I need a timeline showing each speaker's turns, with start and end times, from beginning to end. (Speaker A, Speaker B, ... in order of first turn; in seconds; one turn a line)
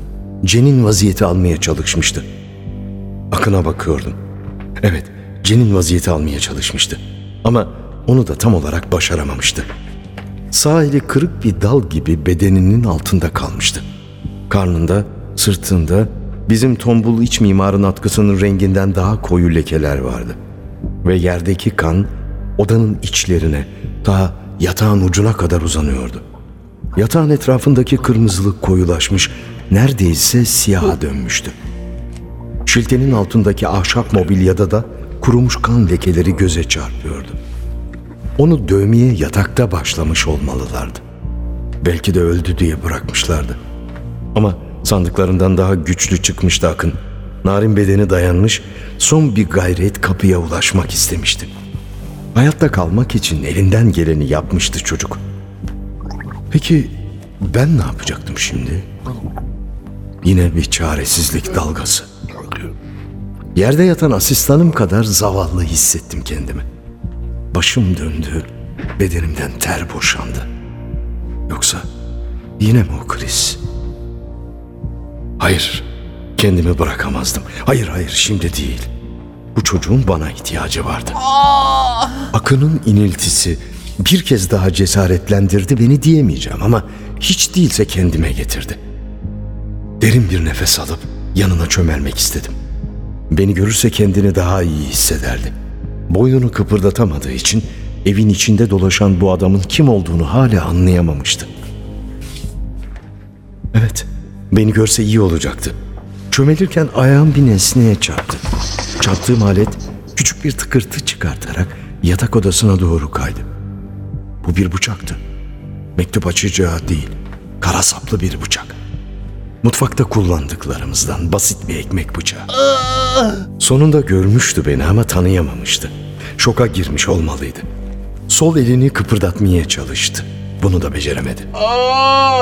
Speaker A: 0.4-2.2
Speaker A: 3.3-4.2
Speaker A: 4.8-9.7
Speaker A: 10.5-13.8
Speaker A: 14.5-20.4
Speaker A: 21.0-26.2
Speaker A: 27.0-31.6
Speaker A: 32.7-37.4
Speaker A: 38.4-41.0
Speaker A: 41.8-43.6
Speaker A: 44.4-51.5
Speaker A: 52.3-55.2
Speaker A: 56.5-58.9
Speaker A: 60.2-62.1
Speaker A: 63.5-66.6
Speaker A: 67.5-70.5
Speaker A: 71.5-71.9
Speaker A: 72.6-73.6
Speaker A: 75.4-75.9
Speaker A: 76.4-78.9
Speaker A: 79.5-81.2
Speaker A: 82.3-88.8
Speaker A: 90.0-92.6
Speaker A: 93.3-95.5
Speaker A: 96.1-101.5
Speaker A: 103.7-105.8
Speaker A: 106.3-108.4
Speaker A: 109.0-113.5
Speaker A: 114.4-115.2
Speaker A: 116.0-118.8
Speaker A: 119.6-122.5
Speaker A: 123.6-127.7
Speaker A: 128.3-131.5